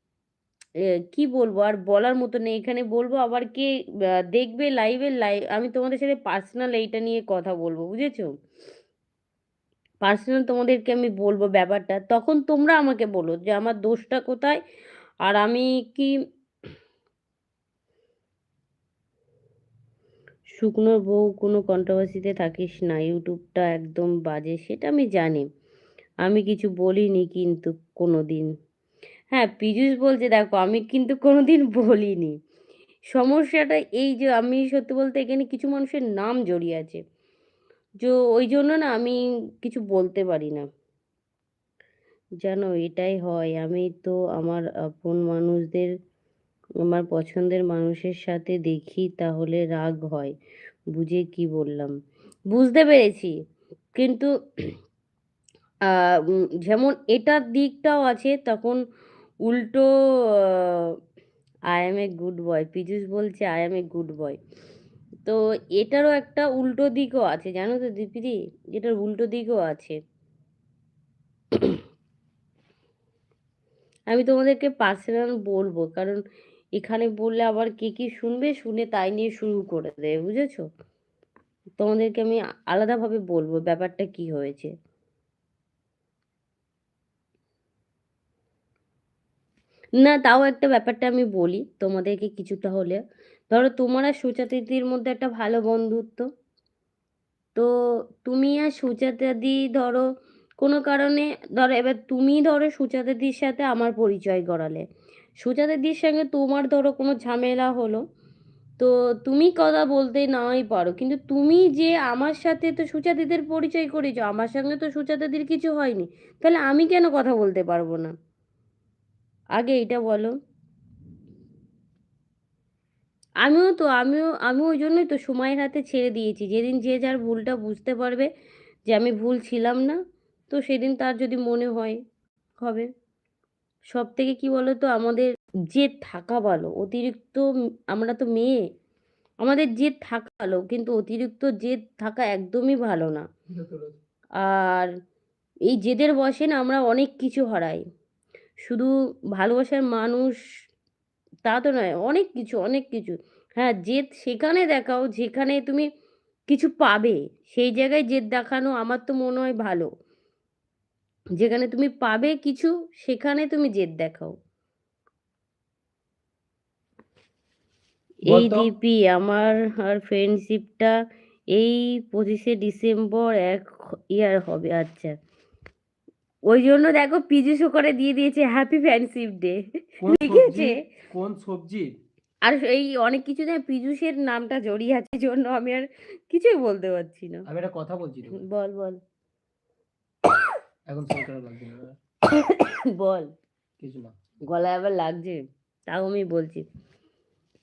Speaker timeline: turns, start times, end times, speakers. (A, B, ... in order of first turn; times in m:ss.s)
0:01.1-0:03.7 A
0:04.3-0:08.3 A
0:10.0-0:14.6 A
0:15.2-0:16.1 A
0:20.6-0:25.5 A
0:26.2-0:28.5 A
0:29.3-0:32.4 A
0:33.1-0:37.0 A
0:38.0-0:40.6 A
0:42.4-0:45.9 A
0:46.9-0:50.3 A
0:51.0-0:51.9 A
0:52.5-0:53.3 A
0:54.0-0:54.3 A
0:55.9-0:58.8 A
0:59.4-0:59.9 A
1:00.4-1:00.9 A
1:01.7-1:04.4 A
1:05.2-1:10.0 A
1:11.5-1:11.8 A
1:14.1-1:16.2 A
1:16.8-1:20.6 A
1:21.8-1:24.7 A
1:30.0-1:33.0 A
1:33.5-1:36.3 A
1:38.2-1:40.0 A
1:40.6-1:44.8 A
1:45.4-1:48.0 A
1:48.8-1:58.1 A
1:59.6-2:00.4 A
2:03.4-2:08.3 A
2:08.9-2:10.0 A
2:10.5-2:12.0 A
2:12.6-2:12.9 A
2:13.9-2:18.6 A
2:19.4-2:23.2 A
2:23.5-2:24.0 B
2:24.4-2:24.9 A
2:25.7-2:27.8 A
2:28.6-2:30.4 A
2:31.5-2:35.9 A
2:36.5-2:39.9 A
2:41.4-2:44.3 A
2:48.3-2:48.7 B
2:48.3-2:50.9 A
2:51.5-2:55.1 A
2:56.5-3:00.7 A
3:00.0-3:01.9 B
3:02.4-3:07.4 A
3:07.5-3:08.4 B
3:08.4-3:09.0 A
3:10.9-3:12.0 B
3:12.3-3:13.3 A
3:13.8-3:14.1 B
3:14.5-3:16.6 A